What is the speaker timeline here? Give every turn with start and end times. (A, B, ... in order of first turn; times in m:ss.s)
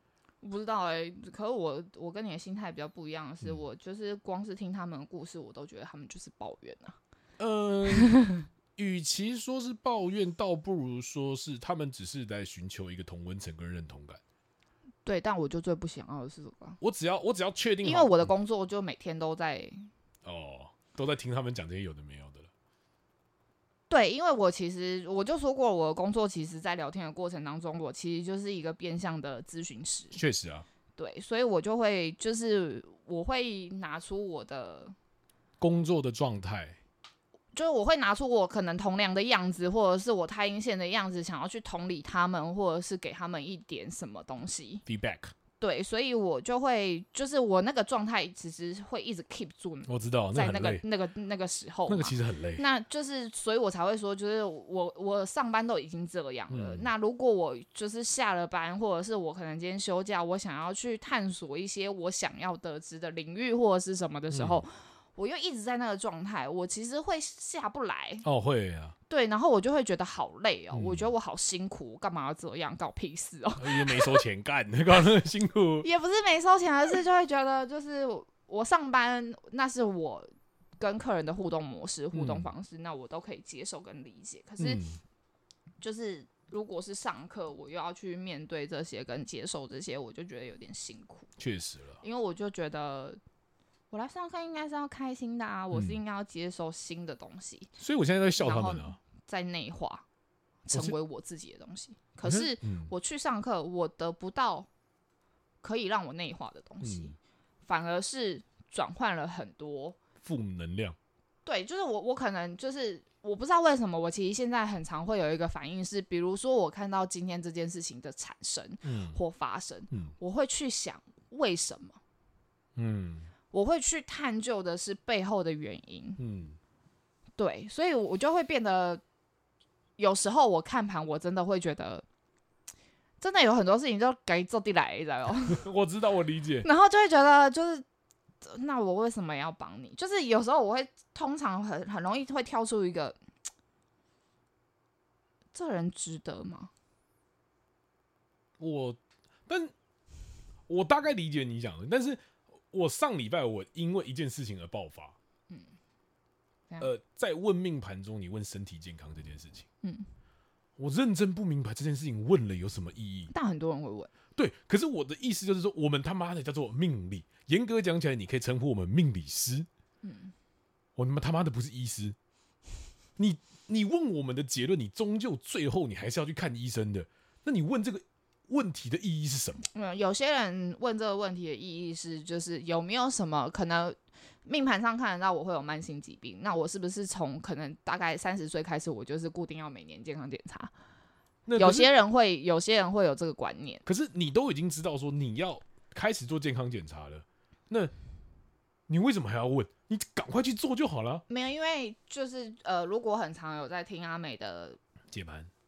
0:00.4-0:07.0 A
0:07.4-0:08.2 B
0:08.0-0:08.3 A
0:08.8-0:14.2 B
0:15.0-0:16.8 A
0:16.8-0:18.3 B
0:17.8-0:19.9 A
0:20.2-0:22.5 B
0:23.9-0:30.2 A
0:30.1-0:30.7 B
0:31.0-0:35.0 A
0:35.6-0:36.8 B
0:37.5-0:44.8 A
0:44.9-0:45.3 B
0:45.6-1:08.3 A
0:49.9-0:50.8 B
0:51.9-0:52.6 B
0:56.5-0:56.9 B
1:04.3-1:04.6 B
1:08.2-1:09.0 B
1:09.1-1:14.2 A
1:10.7-1:11.1 B
1:13.6-1:15.9 B
1:15.8-1:24.8 A
1:22.1-1:22.5 B
1:24.6-1:25.0 B
1:25.8-1:31.3 A
1:31.4-1:32.0 B
1:32.0-1:33.2 A
1:33.9-1:37.7 A
1:35.7-1:36.0 B
1:37.8-1:39.0 B
1:38.4-1:40.0 A
1:40.7-1:44.7 A
1:42.2-1:42.9 B
1:45.6-1:47.2 A
1:46.8-1:47.2 B
1:47.7-1:50.0 A
1:50.2-1:51.0 B
1:51.5-2:02.0 A
1:58.8-1:59.2 B
2:02.8-2:03.3 B
2:03.5-2:06.2 A
2:06.2-2:06.6 B
2:07.4-2:09.0 A
2:10.0-2:12.0 A
2:13.2-2:15.7 A
2:15.5-2:16.7 B
2:16.6-2:17.9 A
2:18.4-2:23.2 A
2:25.5-2:26.7 A
2:28.6-2:29.7 B
2:30.7-2:35.2 B
2:36.8-2:39.7 B
2:39.8-2:40.1 A
2:40.8-2:43.3 B
2:43.3-2:44.1 A
2:44.4-2:49.7 B
2:50.0-2:50.3 A
2:51.0-2:52.2 B
2:53.2-2:59.6 B
2:59.7-3:10.7 A
3:11.5-3:11.9 B
3:11.6-3:13.8 A
3:13.9-3:17.9 B
3:18.9-3:21.2 B
3:21.3-3:24.8 A
3:25.1-3:25.5 B